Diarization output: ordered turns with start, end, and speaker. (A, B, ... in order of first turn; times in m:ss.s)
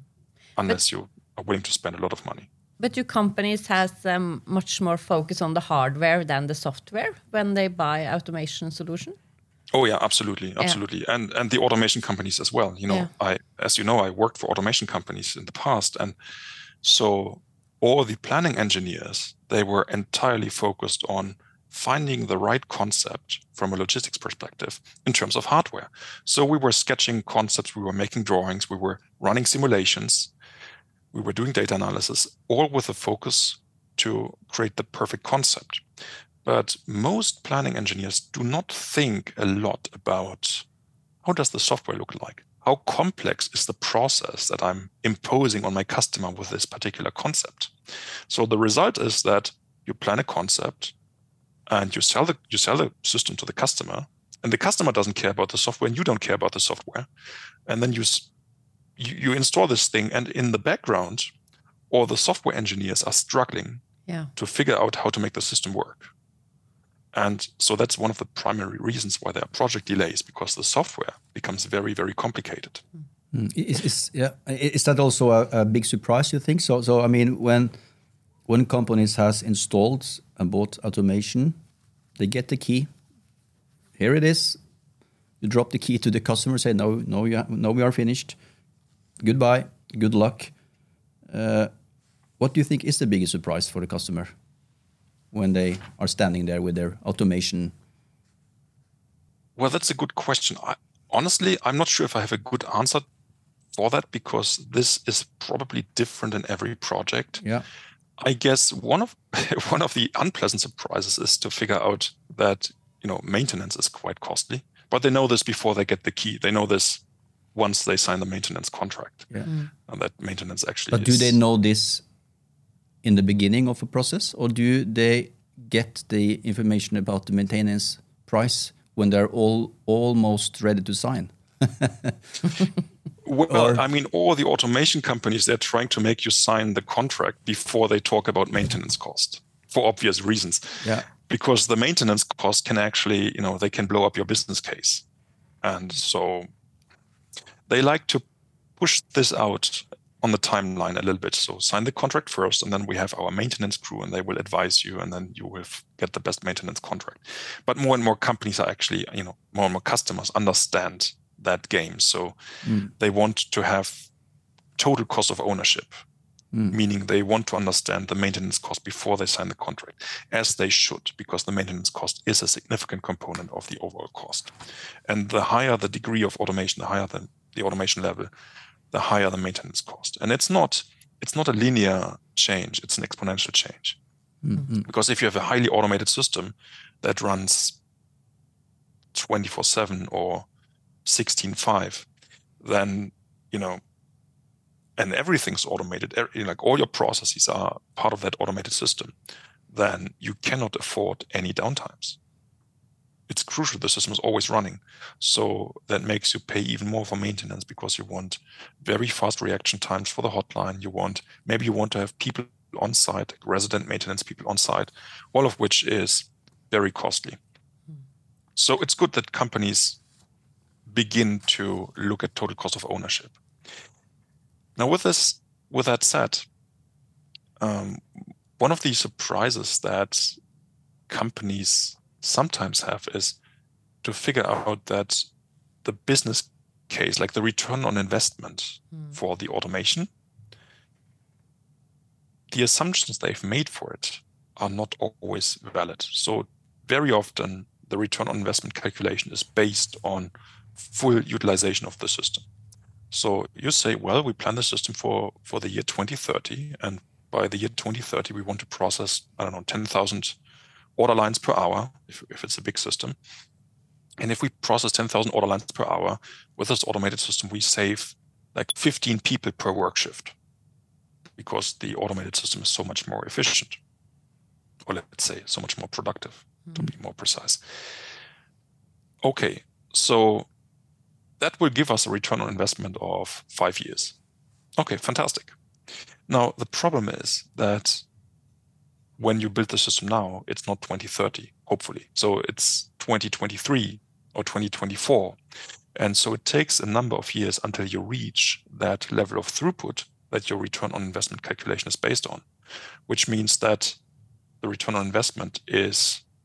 0:00.6-0:02.5 A
0:02.8-0:09.2 B
0:09.7-0:16.2 A
0:16.8-0:30.3 A
0:31.1-0:35.8 A
0:36.4-0:40.6 A
0:41.2-0:47.7 A
0:48.3-0:50.9 A
0:51.7-0:57.1 A
0:57.7-0:58.3 A
0:59.0-1:01.3 A
1:01.9-1:03.8 A
1:04.3-1:06.1 A
1:07.1-1:12.8 A
1:13.3-1:17.7 C
1:18.5-1:21.6 C
1:22.2-1:22.9 C
1:24.0-1:24.6 C
1:25.4-1:28.4 C
1:29.2-1:30.5 C
1:31.3-1:31.7 C
1:32.4-1:34.3 C
1:35.3-1:37.7 C
1:39.6-1:43.0 A
1:43.7-1:47.4 A
1:48.2-1:57.0 A
1:57.5-1:59.3 A
1:59.9-2:01.4 A
2:00.9-2:02.0 C
2:03.0-2:12.2 C
2:13.2-2:25.0 A
2:13.5-2:13.8 C
2:20.8-2:21.1 C
2:25.6-2:26.5 A
2:27.7-2:28.2 A
2:28.8-2:42.4 A
2:42.6-2:42.9 C
2:42.9-2:44.1 A
2:44.8-2:46.0 A
2:46.7-2:54.5 A
2:55.1-2:58.3 A
2:58.9-3:04.0 A
3:04.4-3:04.8 C
3:04.8-3:07.8 A
3:09.1-3:10.5 A
3:11.0-3:12.1 A
3:12.6-3:13.8 A
3:15.0-3:19.1 A
3:19.7-3:22.2 A
3:23.3-3:37.4 A
3:38.6-3:40.0 A
3:40.9-3:43.4 A
3:44.8-3:46.5 A
3:47.6-3:50.4 A
3:51.1-3:53.4 A
3:54.0-3:55.2 A
3:55.8-4:00.1 A
4:02.5-4:12.4 A
4:13.1-4:20.4 A
4:21.0-4:23.2 A
4:24.2-4:30.3 A
4:31.4-4:33.8 A
4:34.8-4:37.6 A
4:39.2-4:40.5 A
4:41.4-4:44.2 A
4:44.8-4:45.5 A
4:46.3-4:48.0 A
4:49.2-4:55.4 A
4:56.0-5:02.4 A
5:03.1-5:04.0 A
5:04.6-5:06.2 A